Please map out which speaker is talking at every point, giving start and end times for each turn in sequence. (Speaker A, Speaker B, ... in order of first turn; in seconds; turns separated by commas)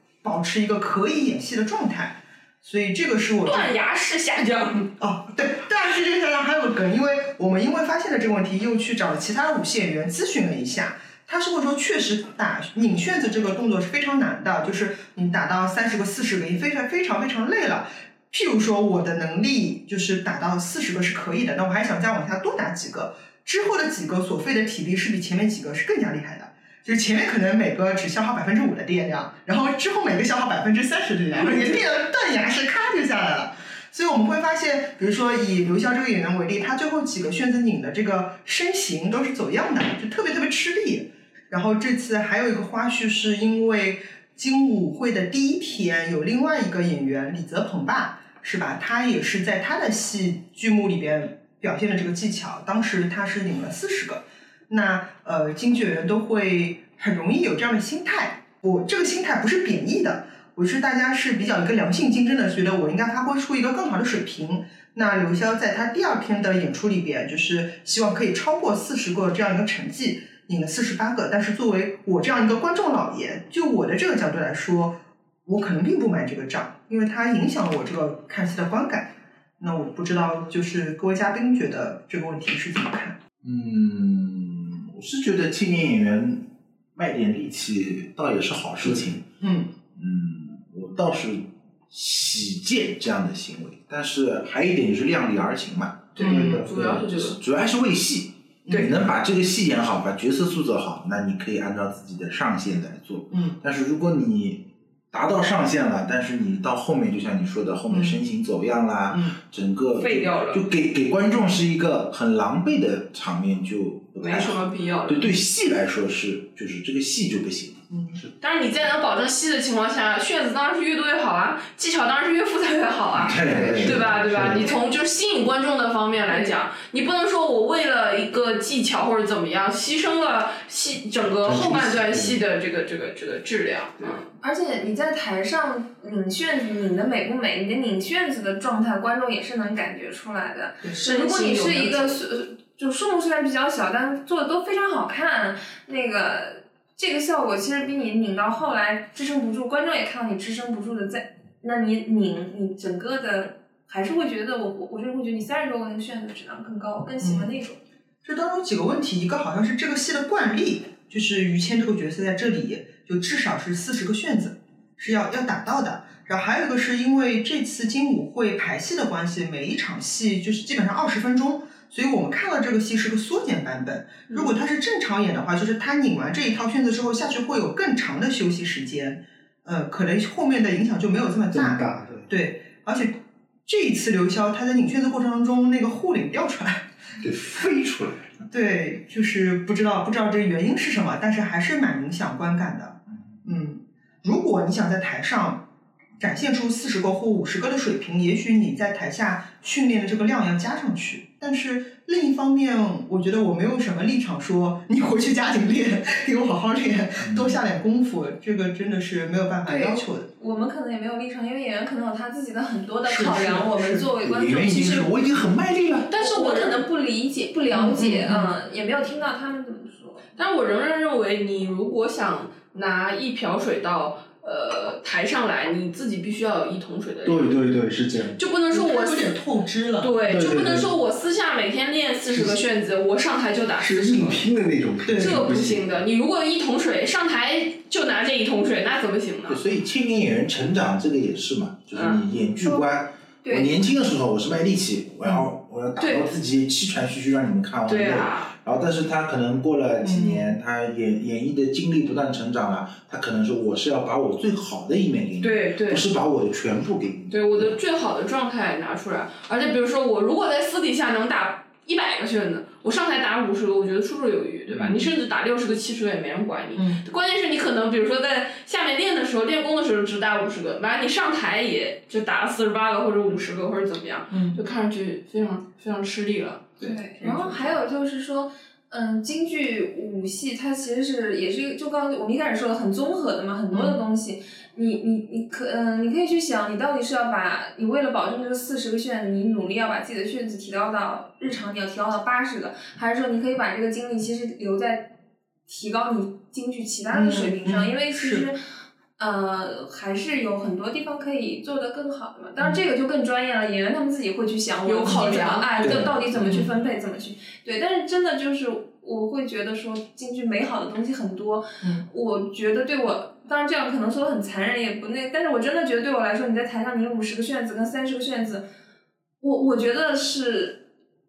Speaker A: 0.2-3.8, Speaker B: 3.4-4.9, Speaker A: 5.0-83.2, Speaker B: 31.4-31.8, Speaker C: 83.4-89.2, Speaker A: 88.8-89.7, Speaker C: 89.9-118.3, Speaker A: 96.2-96.6, Speaker B: 96.2-97.4, Speaker D: 96.2-96.6, Speaker A: 98.7-98.9, Speaker A: 107.9-108.2, Speaker A: 109.1-109.4, Speaker E: 110.0-110.6, Speaker B: 114.2-115.3, Speaker A: 117.9-118.2, Speaker B: 118.4-134.3, Speaker C: 123.1-124.7, Speaker D: 123.6-124.0, Speaker E: 124.5-124.9, Speaker C: 131.4-132.4, Speaker E: 134.4-157.8, Speaker B: 140.9-142.2, Speaker A: 157.2-157.5, Speaker A: 158.2-183.2, Speaker D: 181.5-182.3, Speaker A: 183.7-186.8, Speaker C: 187.2-188.3, Speaker A: 188.5-195.7, Speaker A: 196.2-210.3, Speaker C: 207.2-207.6, Speaker E: 209.7-215.2, Speaker A: 213.0-214.1, Speaker C: 214.2-216.1, Speaker B: 216.1-216.8, Speaker E: 216.1-220.2, Speaker A: 217.7-218.6, Speaker B: 220.4-227.6, Speaker D: 227.2-228.4, Speaker B: 228.4-229.4, Speaker A: 228.7-230.2, Speaker B: 230.0-234.4, Speaker D: 230.2-230.9, Speaker D: 233.8-236.0, Speaker A: 235.1-235.6, Speaker B: 235.2-239.6, Speaker C: 239.5-257.8, Speaker B: 241.9-242.2, Speaker E: 243.4-243.8, Speaker B: 246.0-246.3, Speaker B: 247.9-248.5, Speaker A: 250.0-250.6, Speaker B: 255.4-256.1, Speaker B: 257.3-276.8, Speaker C: 264.7-265.1, Speaker A: 266.8-267.0, Speaker A: 274.3-274.6, Speaker E: 276.8-295.1, Speaker A: 276.8-277.5, Speaker A: 283.7-284.0, Speaker E: 295.7-298.6, Speaker A: 297.1-298.5, Speaker E: 299.2-318.7, Speaker B: 304.9-305.7, Speaker C: 305.8-306.6, Speaker A: 306.4-306.7, Speaker E: 319.4-320.8